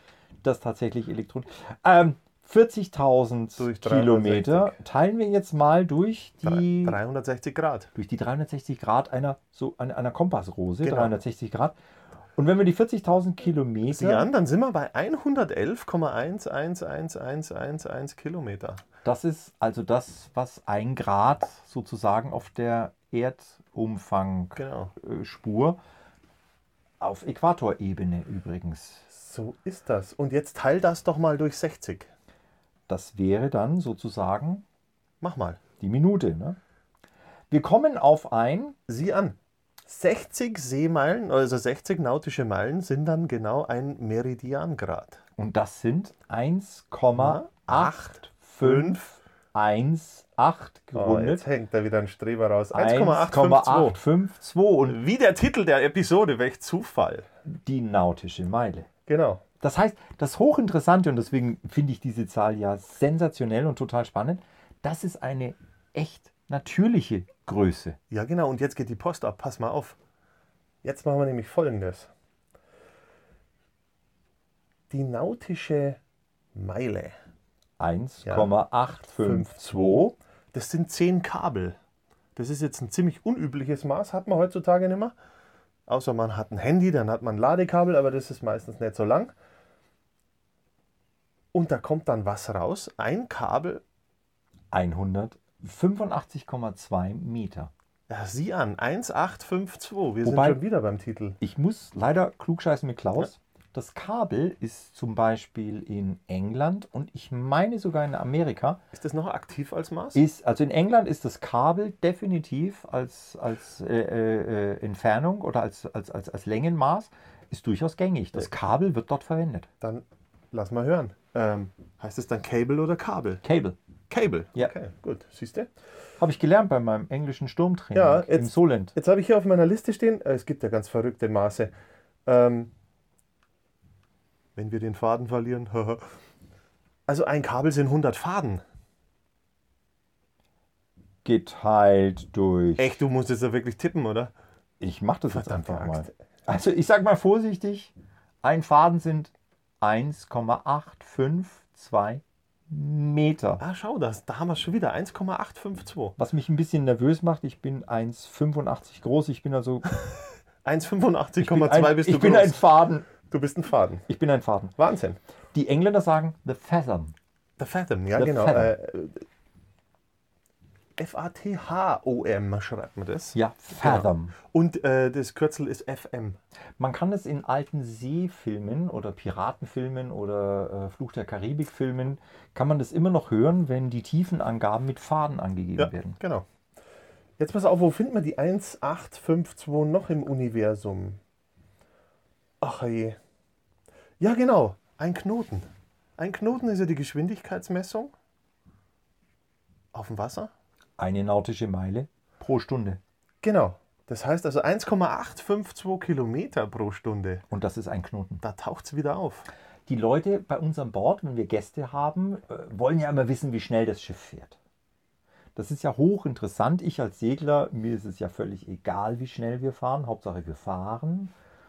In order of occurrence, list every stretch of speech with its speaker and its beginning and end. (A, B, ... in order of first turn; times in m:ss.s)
0:00.4-0:07.0 A
0:03.6-0:04.8 B
0:06.4-0:07.9 B
0:08.0-0:11.8 A
0:10.8-0:11.2 B
0:12.4-0:14.3 A
0:13.9-0:18.8 B
0:19.0-0:25.8 A
0:24.6-0:24.9 B
0:27.0-0:29.1 A
0:29.1-0:32.1 B
0:32.9-0:34.6 A
0:35.2-0:35.6 B
0:35.8-0:36.6 A
0:37.5-0:38.8 A
0:38.9-0:45.2 B
0:45.4-0:51.4 A
0:47.2-0:49.0 B
0:51.0-0:54.0 B
0:52.7-0:55.0 A
0:54.9-0:57.3 B
0:57.5-0:58.9 A
0:59.1-0:59.4 B
0:59.6-1:08.0 A
1:08.1-1:10.0 B
1:10.8-1:12.1 B
1:14.9-1:16.0 B
1:16.6-1:17.1 B
1:17.8-1:20.2 A
1:18.2-1:18.5 B
1:19.2-1:21.8 B
1:22.4-1:25.1 B
1:25.9-1:29.4 B
1:31.5-1:33.8 B
1:34.7-1:37.7 A
1:38.1-1:41.4 B
1:40.2-1:40.6 A
1:41.4-1:48.8 A
1:48.9-1:50.2 B
1:50.2-1:59.7 A
1:59.8-2:03.4 B
2:03.4-2:03.8 A
2:04.1-2:05.7 B
2:06.2-2:09.0 A
2:07.9-2:11.7 B
2:12.3-2:12.7 B
2:14.6-2:16.0 B
2:17.1-2:18.6 B
2:21.2-2:23.0 A
2:22.8-2:24.3 B
2:24.8-2:33.6 A
2:25.3-2:26.1 B
2:33.6-2:36.2 B
2:36.2-2:40.0 A
2:40.6-2:42.6 B
2:41.4-2:43.1 A
2:43.3-2:44.1 B
2:44.1-2:44.7 A
2:44.8-2:45.2 B
2:45.5-2:47.1 A
2:47.6-2:49.2 B
2:48.2-2:48.8 A
2:51.0-2:56.4 B
2:53.3-2:54.4 A
2:56.8-3:06.2 A
3:05.8-3:06.5 B
3:07.4-3:11.2 B
3:12.6-3:13.2 B
3:14.2-3:15.7 B
3:16.2-3:18.1 B
3:19.9-3:20.5 B
3:21.0-3:23.0 A
3:23.4-3:27.4 B
3:27.5-3:28.4 A
3:28.4-3:29.5 B
3:29.9-3:34.6 A
3:35.6-3:41.3 A